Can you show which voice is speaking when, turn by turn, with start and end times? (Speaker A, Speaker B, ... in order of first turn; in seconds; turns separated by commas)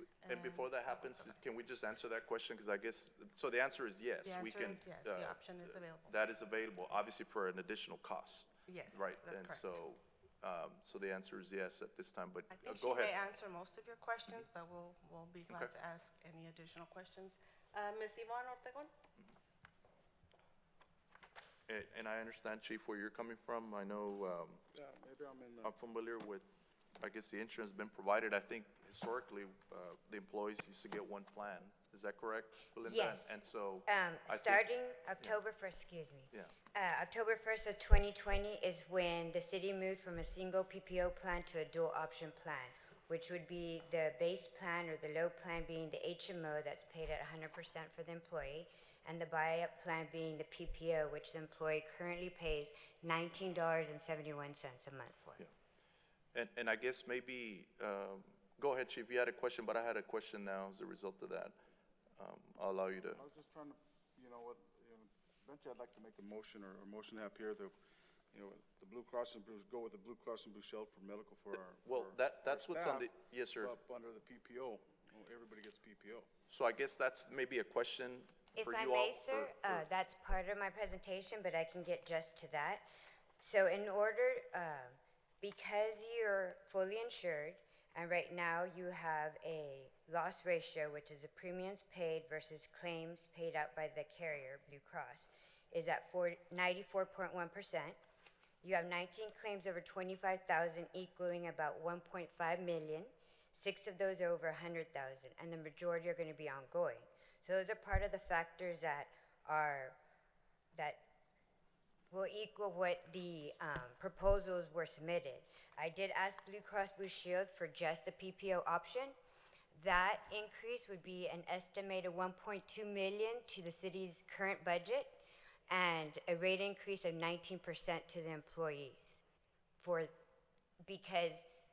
Speaker A: 0.2-0.7, Speaker B: 0.2-13.2, Speaker A: 4.2-6.1, Speaker A: 8.7-9.7, Speaker A: 12.5-18.9, Speaker B: 21.7-24.6, Speaker C: 24.7-25.7, Speaker B: 25.6-26.5, Speaker B: 27.0-34.6, Speaker D: 32.8-55.5, Speaker B: 56.3-61.6, Speaker B: 62.2-63.2, Speaker C: 63.2-67.7, Speaker C: 68.3-76.3, Speaker B: 71.8-73.7, Speaker B: 76.5-79.8, Speaker D: 78.5-82.8, Speaker D: 83.4-98.0, Speaker D: 98.6-110.0, Speaker D: 110.7-111.1, Speaker D: 112.1-119.2, Speaker D: 119.7-129.2, Speaker D: 129.8-130.1, Speaker D: 130.8-131.4